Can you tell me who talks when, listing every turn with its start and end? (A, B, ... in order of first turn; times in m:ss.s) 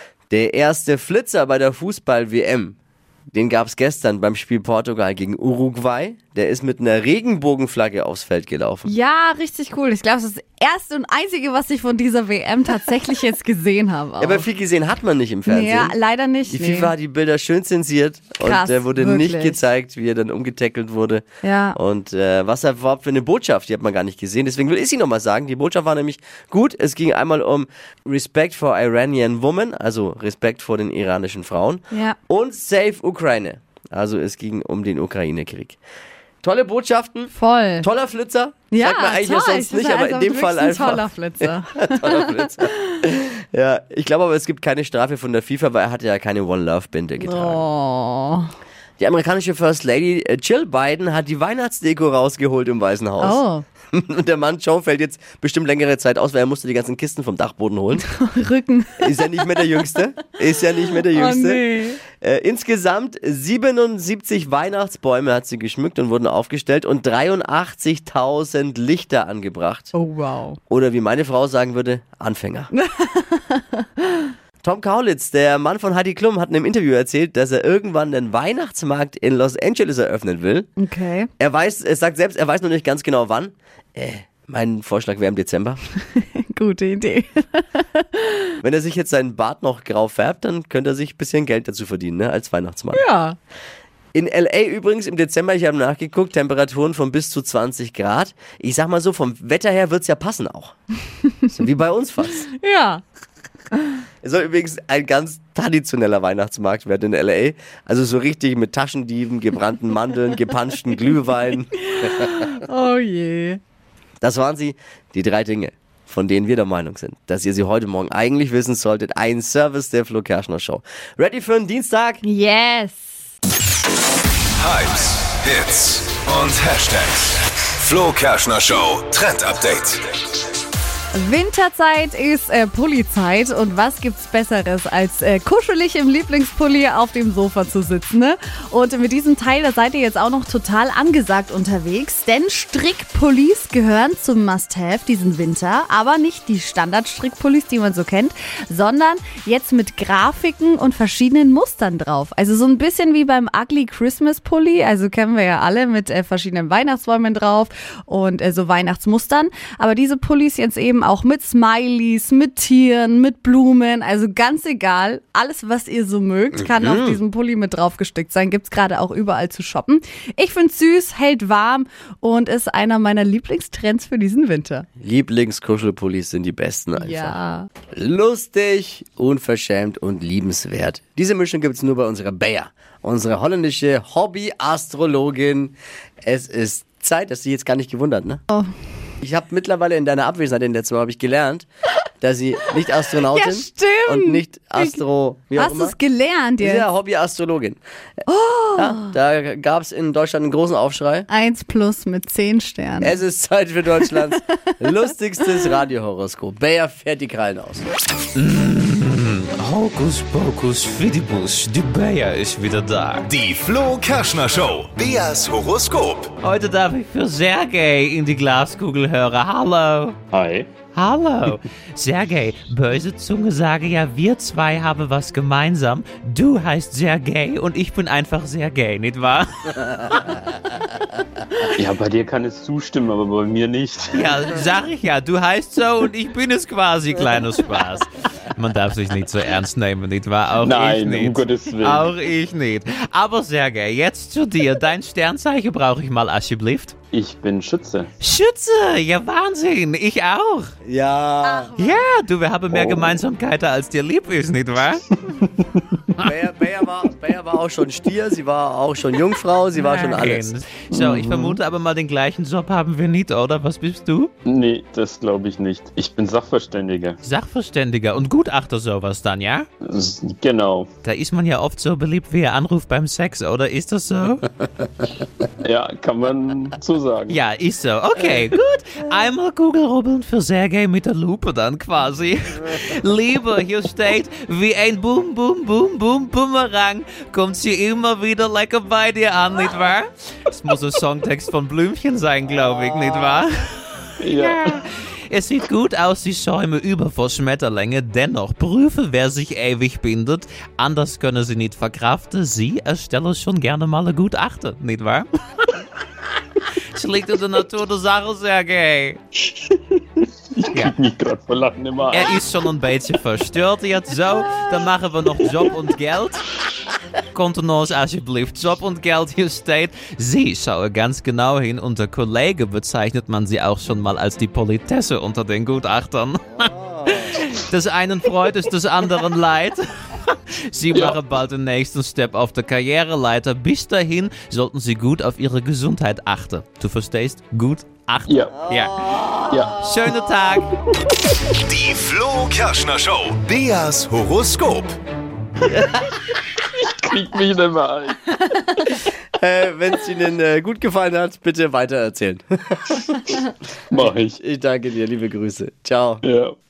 0:00.3-0:02.8 A
0:03.3-0:08.9 A
0:08.9-0:14.5 B
0:14.2-0:35.8 A
0:15.5-0:16.9 B
0:18.4-0:19.6 B
0:21.4-0:21.8 B
0:31.9-0:32.2 B
0:36.4-0:47.7 A
0:37.4-0:37.9 B
0:38.7-0:42.5 B
0:47.2-0:48.5 B
0:49.0-0:58.1 A
0:53.2-0:53.6 B
0:58.1-0:59.2 B
0:59.0-1:09.9 A
1:01.1-1:02.0 B
1:09.9-1:10.6 B
1:10.7-1:12.7 A
1:12.7-1:14.3 B
1:14.6-1:20.7 A
1:20.8-1:21.3 B
1:21.4-1:25.8 A
1:26.2-1:28.6 B
1:28.6-1:33.0 A
1:32.9-1:33.4 B
1:34.1-1:40.8 A
1:41.5-1:42.5 A
1:42.6-1:43.0 B
1:44.2-1:52.4 A
1:51.9-1:53.6 B
1:54.2-2:02.2 A
2:02.2-2:03.2 B
2:04.6-2:10.0 C
2:11.1-2:54.9 B
2:46.6-2:47.2 A
2:55.0-2:57.4 A
2:57.0-2:57.7 B
2:57.9-3:08.4 A
3:09.2-3:11.7 A
3:12.2-3:16.0 A
3:13.3-3:15.0 B
3:15.6-3:16.9 B
3:16.6-3:17.8 A
3:18.3-3:19.1 B
3:18.8-3:21.3 A
3:21.3-3:23.2 B
3:23.0-3:27.8 A
3:24.0-3:24.7 B
3:28.4-3:33.3 D
3:33.3-3:36.3 C
3:36.4-3:40.2 D
3:40.3-3:40.7 E
3:40.9-3:50.4 D
3:51.8-3:54.3 E
3:54.1-4:07.0 D
4:00.6-4:02.1 E
4:07.1-4:08.1 E
4:08.2-4:10.7 D
4:10.8-4:11.7 A
4:11.4-4:12.1 B
4:11.8-4:15.0 D
4:16.2-4:20.5 A
4:19.8-4:24.3 D
4:20.9-4:21.6 E
4:24.5-4:27.2 E
4:27.2-4:29.7 D
4:29.8-4:30.9 E
4:31.0-4:34.5 D
4:35.6-4:37.4 E
4:37.3-4:53.7 D
4:54.2-4:54.8 E
4:54.4-5:05.8 D
5:07.0-5:09.2 D
5:09.5-5:12.4 E
5:12.1-5:16.4 D
5:17.3-5:26.7 D
5:26.6-5:27.4 A
5:27.4-5:39.0 D
5:38.3-5:38.6 E
5:38.5-5:40.4 A
5:39.5-5:39.8 E
5:39.8-5:40.7 D
5:41.6-5:45.0 C
5:45.6-5:46.2 A
5:46.8-5:48.9 E
5:49.4-5:53.1 A
5:53.9-5:54.4 E
5:54.0-5:56.2 A
5:56.2-5:56.6 E